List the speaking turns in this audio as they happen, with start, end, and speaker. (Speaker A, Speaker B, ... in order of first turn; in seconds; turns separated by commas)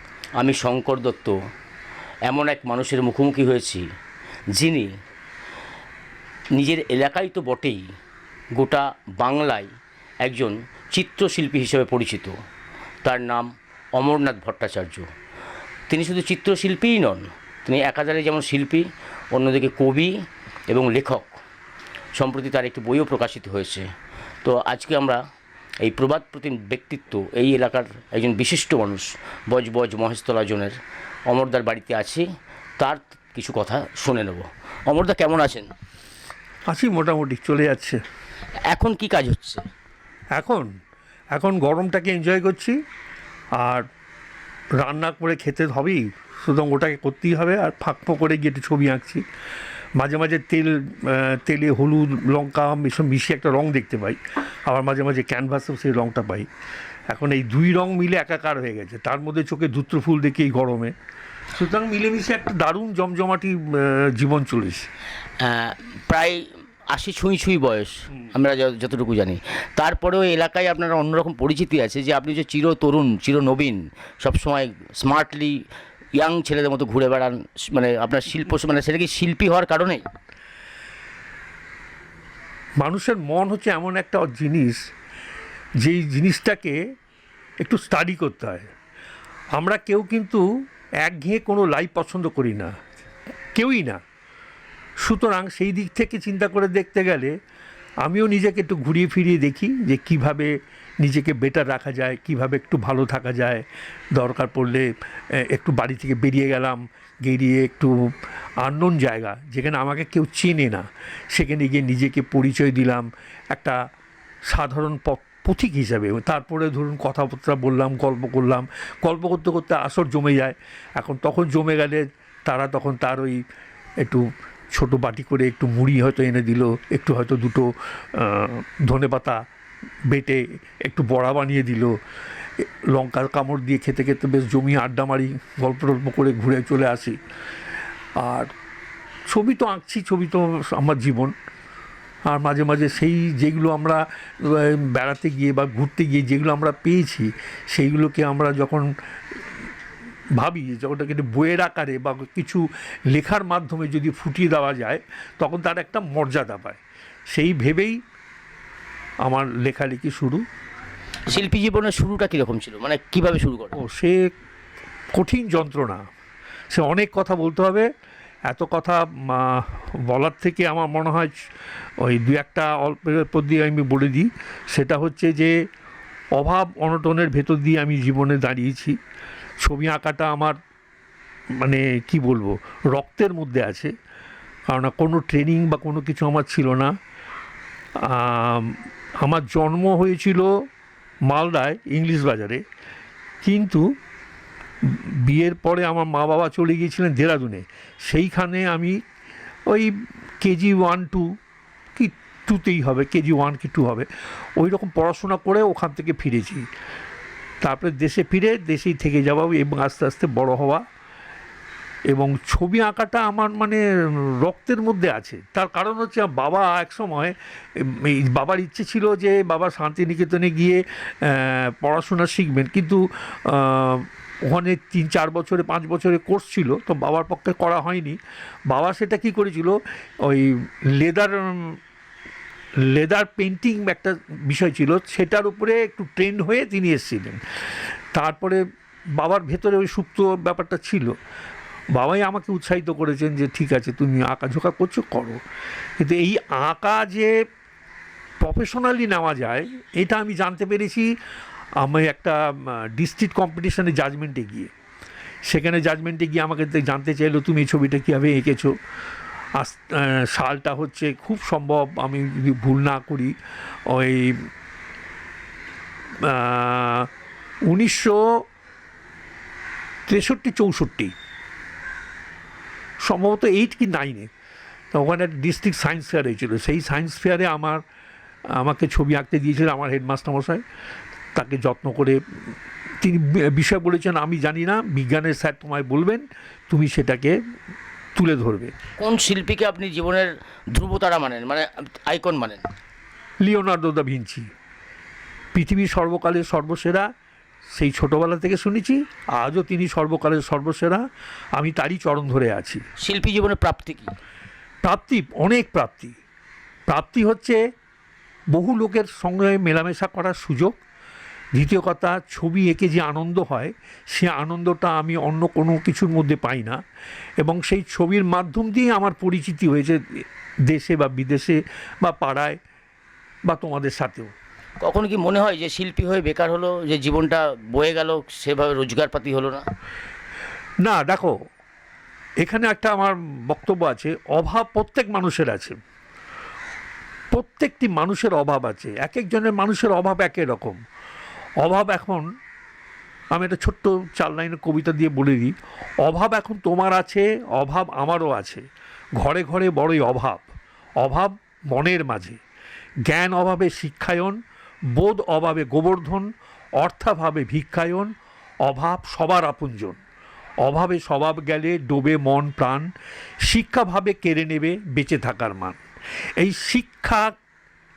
Speaker A: 0.3-1.4, Speaker A: 2.2-3.8, Speaker A: 4.5-4.9, Speaker A: 6.5-7.9, Speaker A: 8.5-9.7, Speaker A: 10.2-12.3, Speaker A: 13.0-15.1, Speaker A: 15.9-20.1, Speaker A: 20.7-21.4, Speaker A: 22.1-23.9, Speaker A: 24.4-25.2, Speaker A: 25.8-30.8, Speaker A: 31.3-32.3, Speaker A: 32.8-35.7, Speaker B: 36.7-38.0, Speaker A: 38.7-39.6, Speaker B: 40.3-40.7, Speaker B: 41.3-42.8, Speaker B: 43.5-43.9, Speaker B: 44.8-49.2, Speaker B: 50.0-56.5, Speaker B: 57.1-60.9, Speaker B: 61.5-64.9, Speaker A: 65.4-75.6, Speaker A: 76.1-80.0, Speaker B: 82.8-84.8, Speaker B: 85.8-86.8, Speaker B: 87.6-88.7, Speaker B: 89.5-90.4, Speaker B: 91.0-92.7, Speaker B: 93.5-94.0, Speaker B: 95.0-97.3, Speaker B: 98.0-113.8, Speaker B: 114.5-123.4, Speaker B: 124.0-129.4, Speaker B: 130.1-131.9, Speaker B: 132.6-137.2, Speaker B: 138.2-138.5, Speaker B: 139.3-141.3, Speaker B: 142.3-148.9, Speaker B: 150.3-158.0, Speaker B: 159.2-160.4, Speaker A: 161.3-163.8, Speaker B: 163.8-164.3, Speaker B: 165.1-166.0, Speaker B: 166.7-167.9, Speaker B: 168.5-171.3, Speaker B: 172.0-175.5, Speaker B: 176.4-178.9, Speaker B: 179.6-180.6, Speaker B: 181.6-183.9, Speaker B: 184.7-186.9, Speaker B: 188.0-190.5, Speaker B: 191.3-192.6, Speaker B: 193.4-193.8, Speaker B: 194.8-199.0, Speaker B: 199.7-201.3, Speaker B: 201.9-206.7, Speaker B: 207.6-210.8, Speaker B: 212.1-231.8, Speaker B: 232.9-237.4, Speaker B: 238.1-238.6, Speaker B: 239.2-241.1, Speaker B: 241.9-245.4, Speaker B: 246.0-247.3, Speaker B: 248.4-251.1, Speaker B: 251.8-254.7, Speaker B: 255.5-258.7, Speaker B: 259.5-263.3, Speaker B: 263.9-264.5, Speaker B: 266.2-267.1, Speaker B: 267.7-268.3, Speaker B: 270.1-271.1, Speaker B: 273.0-274.3, Speaker B: 274.9-277.8, Speaker B: 278.5-280.6, Speaker B: 281.3-282.2, Speaker B: 283.0-287.4, Speaker B: 288.1-288.7, Speaker A: 289.0-292.6, Speaker B: 293.4-294.5, Speaker B: 295.5-297.1, Speaker B: 297.7-301.0, Speaker B: 301.6-302.8, Speaker A: 303.0-304.1, Speaker B: 304.8-306.1, Speaker B: 306.9-307.6, Speaker B: 308.5-310.8, Speaker B: 311.6-316.8, Speaker B: 317.4-322.6, Speaker B: 323.5-324.3, Speaker A: 324.8-329.6, Speaker B: 330.8-331.4, Speaker B: 332.4-335.8, Speaker B: 337.3-340.8, Speaker B: 341.6-342.2, Speaker B: 343.3-348.6, Speaker B: 349.2-350.5, Speaker B: 351.0-352.4, Speaker B: 353.1-354.4, Speaker B: 354.9-358.1, Speaker B: 358.6-360.0, Speaker B: 360.6-362.9, Speaker B: 363.4-365.8, Speaker B: 366.4-367.3